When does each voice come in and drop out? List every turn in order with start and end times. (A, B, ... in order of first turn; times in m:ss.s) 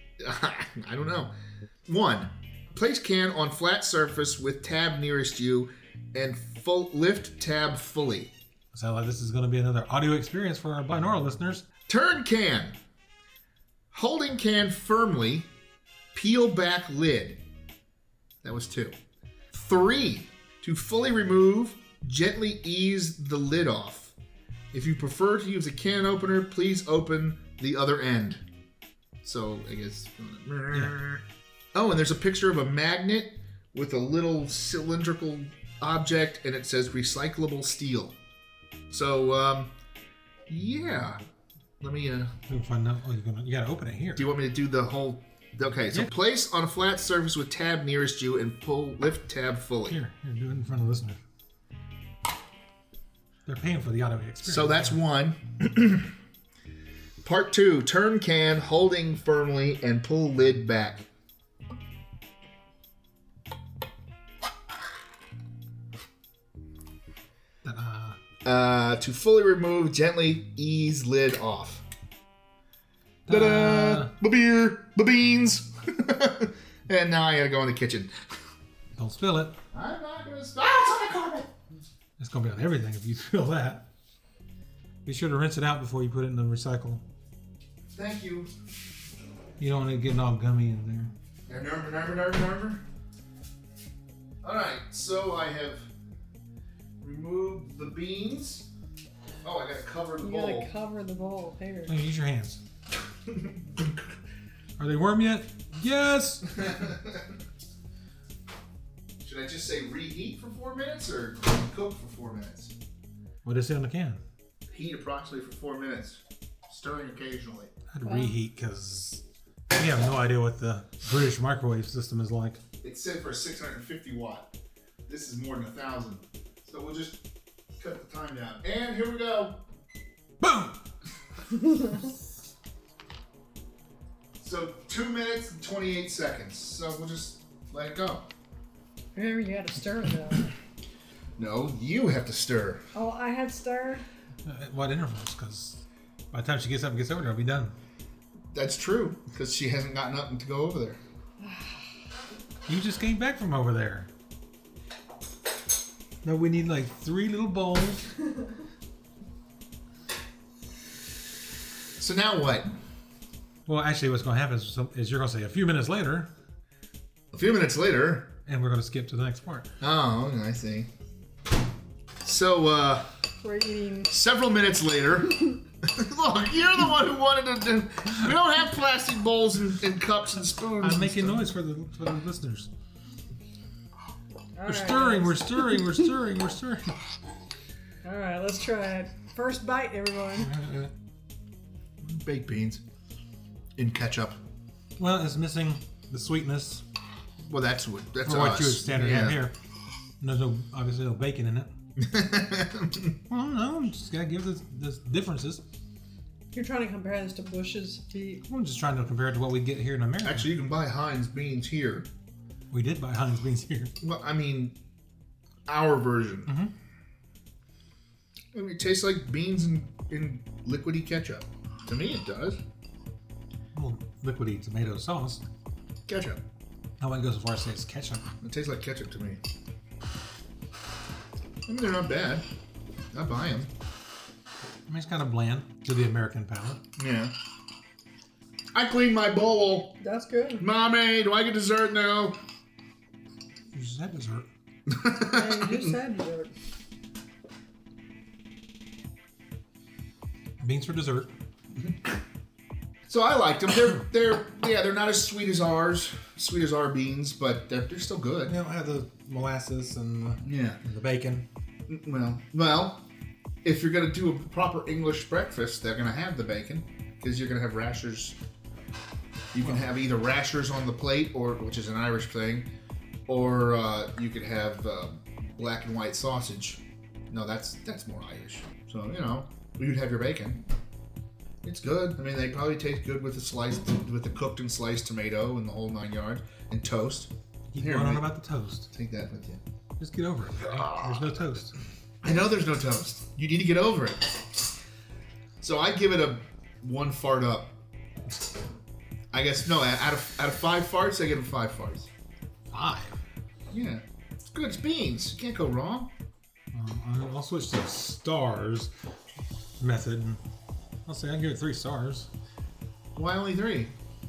0:00.2-0:01.3 A
0:01.9-0:08.3 A
0:08.7-0:11.6 B
0:11.9-0:12.8 A
0:13.9-0:15.5 A
0:16.1-0:17.4 A
0:18.4-0:19.0 A
0:19.5-0:24.1 A
0:24.7-0:28.4 A
0:29.2-0:31.2 A
0:30.7-0:31.0 B
0:31.7-0:38.2 A
0:38.9-0:39.7 A
0:40.5-0:41.2 A
0:41.8-0:42.3 A
0:42.5-0:44.3 B
0:44.2-0:50.0 A
0:49.9-0:51.2 B
0:53.4-0:55.0 B
0:54.4-0:56.1 A
0:57.2-1:01.0 A
1:07.6-1:08.2 B
1:08.4-1:11.8 A
1:13.2-1:14.1 B
1:13.3-1:18.1 A
1:19.0-1:19.6 B
1:19.7-1:21.5 A
1:22.2-1:23.8 B
1:25.0-1:27.0 B
1:27.9-1:28.5 A
1:29.6-1:31.1 B
1:31.5-1:32.8 A
1:34.4-1:35.9 A
1:37.0-1:38.7 A
1:39.4-1:40.7 A
1:40.2-1:41.9 C
1:41.9-1:42.6 B
1:43.3-1:44.0 A
1:44.8-1:46.4 B
1:46.5-1:47.3 A
1:49.2-1:52.7 A
1:53.4-1:54.2 B
1:54.7-1:57.7 A
1:57.9-2:02.6 B
1:58.0-1:58.3 C
2:02.8-2:04.5 A
2:05.1-2:07.2 A
2:07.8-2:09.6 A
2:10.4-2:10.8 B
2:11.5-2:12.0 C
2:14.4-2:18.3 A
2:19.1-2:20.5 C
2:21.4-2:22.8 A
2:22.9-2:24.0 C
2:24.4-2:27.7 B
2:28.5-2:31.0 A
2:31.4-2:31.7 C
2:32.7-2:34.1 B
2:36.2-2:38.0 B
2:42.0-2:42.7 A
2:43.6-2:46.3 B
2:47.3-2:48.3 A
2:48.4-2:49.7 B
2:49.8-2:50.9 A
2:52.2-2:53.1 A
2:53.4-2:54.1 C
2:54.1-3:01.5 A
3:00.8-3:02.7 B
3:04.6-3:05.4 C
3:04.6-3:06.9 B
3:08.0-3:10.5 C
3:10.4-3:10.9 B
3:12.0-3:12.8 A
3:13.8-3:14.4 A
3:15.0-3:16.8 B
3:17.4-3:19.4 A
3:18.2-3:19.5 B
3:20.2-3:21.7 B
3:22.0-3:23.1 A
3:23.3-3:25.6 B
3:26.5-3:28.4 C
3:28.5-3:30.5 B
3:30.2-3:32.1 A
3:32.7-3:33.9 B
3:34.0-3:34.8 A
3:35.7-3:36.5 A
3:36.5-3:36.7 B
3:38.5-3:42.6 A
3:43.7-3:45.4 B
3:46.1-3:46.4 A
3:47.0-3:48.2 B
3:48.4-3:49.4 A
3:51.7-3:52.4 A
3:53.1-3:53.7 A
3:54.9-3:56.8 B
3:57.0-3:57.3 A
3:58.7-4:00.0 A
4:00.0-4:00.6 C
4:00.6-4:02.4 A
4:03.7-4:04.5 B
4:04.9-4:05.9 A
4:05.2-4:06.5 C
4:10.6-4:11.3 B
4:13.1-4:18.5 A
4:18.4-4:21.5 B
4:20.4-4:20.8 A
4:21.9-4:23.0 A
4:23.6-4:28.4 A
4:29.5-4:32.7 A
4:33.3-4:40.6 A
4:41.6-4:48.3 A
4:47.7-4:48.9 B
4:48.9-4:49.6 A
4:50.0-4:51.7 B
4:50.6-4:51.3 A
4:52.2-4:54.4 A
4:55.6-4:57.8 A
4:59.3-5:02.1 A
5:02.7-5:03.2 B
5:03.7-5:06.1 A
5:06.7-5:08.9 B
5:09.8-5:10.4 B
5:11.0-5:12.3 B
5:13.2-5:13.9 A